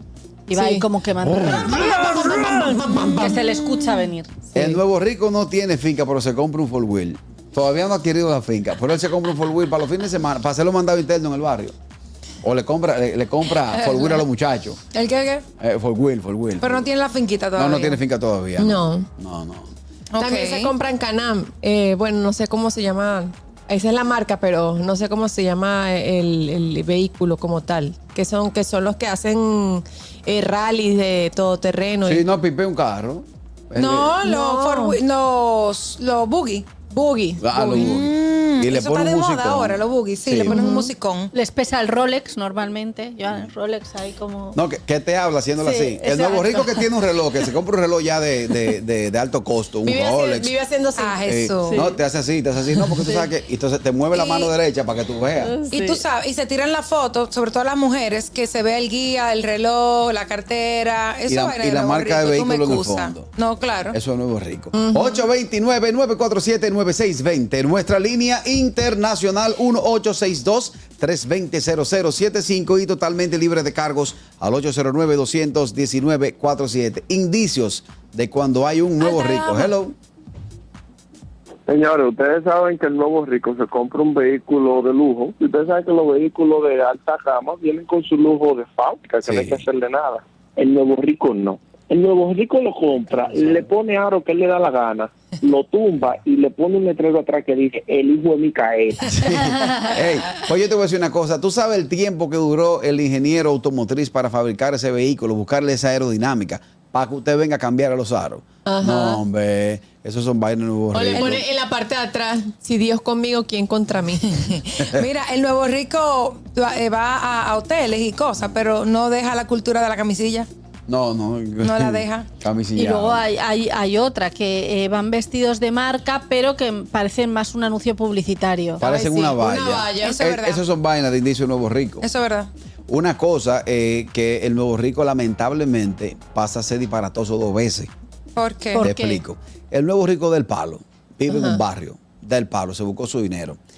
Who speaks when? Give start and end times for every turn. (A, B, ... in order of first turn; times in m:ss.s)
0:00.5-0:04.3 A
0:00.5-0:00.9 B
0:02.2-0:02.9 B
0:04.5-0:04.8 B
0:04.5-0:11.7 C
0:12.4-0:14.8 C
0:13.7-0:14.0 D
0:14.9-0:15.4 D
0:15.6-0:16.9 C
0:16.6-0:18.0 D
0:17.6-0:19.7 C
0:18.6-0:19.1 B
0:20.1-0:20.7 D
0:20.2-0:32.2 B
0:32.0-0:34.2 C
0:33.8-0:36.8 D
0:34.2-0:35.0 B
0:36.8-0:37.8 B
0:37.4-0:40.6 C
0:37.6-0:41.3 D
0:40.5-0:40.9 B
0:41.3-0:44.6 A
0:44.5-0:50.5 C
0:45.6-0:46.8 A
0:49.8-0:52.0 B
0:51.0-0:51.8 D
0:51.2-0:55.5 C
0:52.8-0:53.3 B
0:54.1-0:54.5 D
0:55.4-0:56.0 B
0:55.7-1:04.0 D
1:01.3-1:03.3 C
1:03.9-1:19.9 C
1:04.7-1:05.2 B
1:19.0-1:19.7 D
1:21.7-1:39.3 E
1:29.2-1:29.6 C
1:33.3-1:33.6 C
1:39.1-1:51.4 C
1:48.6-1:49.2 B
1:50.9-1:54.4 B
1:54.4-2:00.5 D
2:00.9-2:03.2 C
2:01.6-2:02.3 D
2:02.8-2:08.8 A
2:08.8-2:12.0 C
2:08.8-2:10.3 B
2:10.0-2:10.6 D
2:12.0-2:12.5 D
2:12.9-2:17.9 C
2:18.4-2:18.8 D
2:18.7-2:19.2 A
2:18.8-2:23.6 C
2:21.3-2:21.6 B